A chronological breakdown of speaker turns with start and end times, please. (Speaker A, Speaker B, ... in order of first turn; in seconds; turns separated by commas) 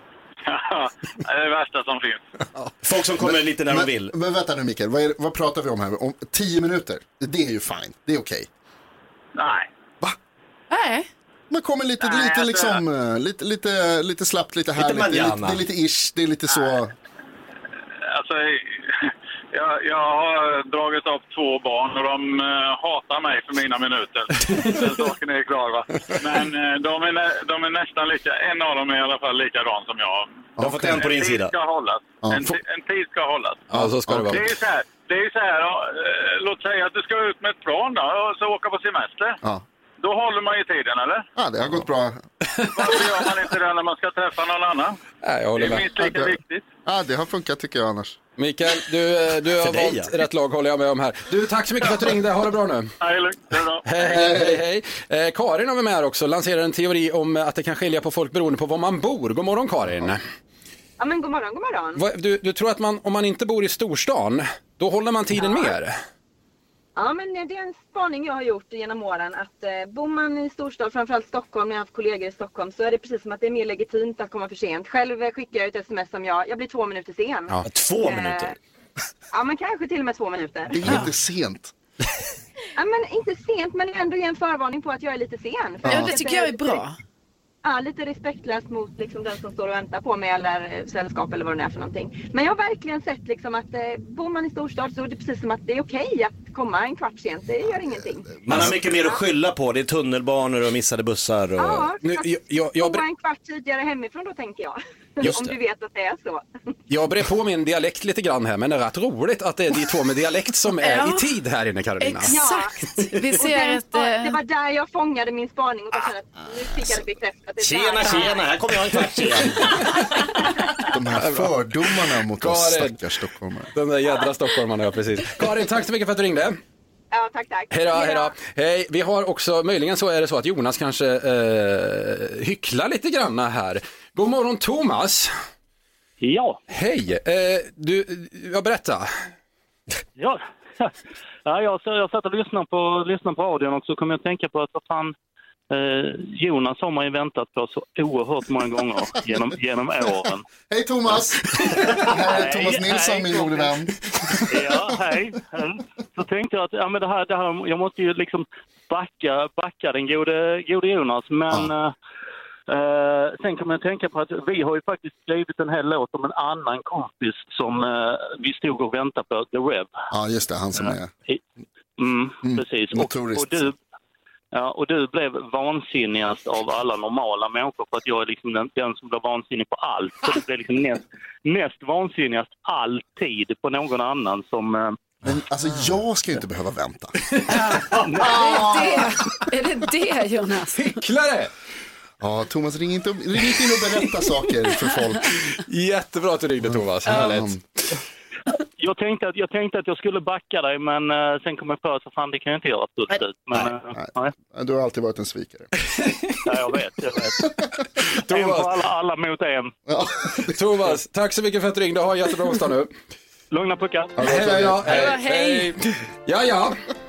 Speaker A: 0.5-2.2, Speaker B: 2.8-4.1, Speaker C: 3.2-8.5, Speaker A: 9.4-9.7, Speaker D: 10.7-11.1, Speaker C: 11.5-16.9, Speaker A: 12.0-12.8, Speaker B: 14.8-15.6, Speaker A: 18.1-33.7, Speaker C: 30.6-31.0, Speaker B: 30.6-31.5, Speaker C: 32.2-32.6, Speaker C: 33.7-34.5, Speaker E: 33.7-34.5, Speaker A: 34.3-39.4, Speaker A: 40.0-41.3, Speaker C: 41.4-42.2, Speaker A: 42.7-45.0, Speaker E: 45.2-46.3, Speaker A: 45.6-46.6, Speaker C: 46.9-48.2, Speaker E: 48.4-52.9, Speaker B: 49.6-50.1, Speaker A: 53.0-53.9, Speaker E: 53.8-60.2, Speaker C: 54.0-54.6, Speaker F: 61.0-62.0, Speaker E: 62.0-66.0, Speaker F: 67.0-78.5, Speaker B: 77.7-78.5, Speaker F: 79.3-80.8, Speaker C: 80.7-81.7, Speaker F: 82.8-86.8, Speaker C: 85.8-86.1, Speaker D: 85.8-87.0, Speaker F: 87.7-98.4, Speaker C: 98.4-98.9, Speaker B: 98.5-101.9, Speaker F: 101.6-106.5, Speaker E: 102.0-103.0, Speaker B: 105.2-105.5, Speaker E: 106.9-112.4, Speaker D: 110.8-111.2, Speaker D: 112.0-114.4, Speaker F: 112.3-118.6, Speaker B: 117.6-119.8, Speaker C: 120.9-123.7, Speaker E: 121.2-121.5, Speaker E: 122.4-123.0, Speaker E: 123.7-126.6, Speaker F: 127.1-128.3, Speaker E: 127.7-135.3, Speaker G: 136.2-136.6, Speaker E: 136.7-139.1, Speaker G: 140.2-140.9, Speaker G: 141.4-145.2, Speaker G: 145.7-150.4, Speaker C: 150.7-154.9, Speaker G: 152.1-153.8, Speaker G: 154.5-161.9, Speaker G: 162.7-169.9, Speaker C: 170.1-171.1, Speaker G: 172.0-173.7, Speaker C: 172.4-173.7, Speaker G: 174.5-185.0, Speaker C: 185.2-187.2, Speaker E: 187.3-187.8, Speaker D: 187.5-191.0, Speaker G: 188.1-188.7, Speaker C: 188.2-189.1, Speaker E: 190.8-191.5, Speaker C: 192.2-195.4, Speaker E: 195.6-197.6, Speaker C: 196.6-197.6, Speaker G: 198.8-204.3, Speaker C: 203.6-205.7, Speaker G: 206.4-207.5, Speaker E: 208.2-208.7, Speaker G: 208.3-209.7, Speaker C: 209.9-210.6, Speaker E: 210.5-212.9, Speaker G: 213.5-214.2, Speaker C: 214.2-215.1, Speaker E: 214.2-216.8, Speaker D: 214.9-215.7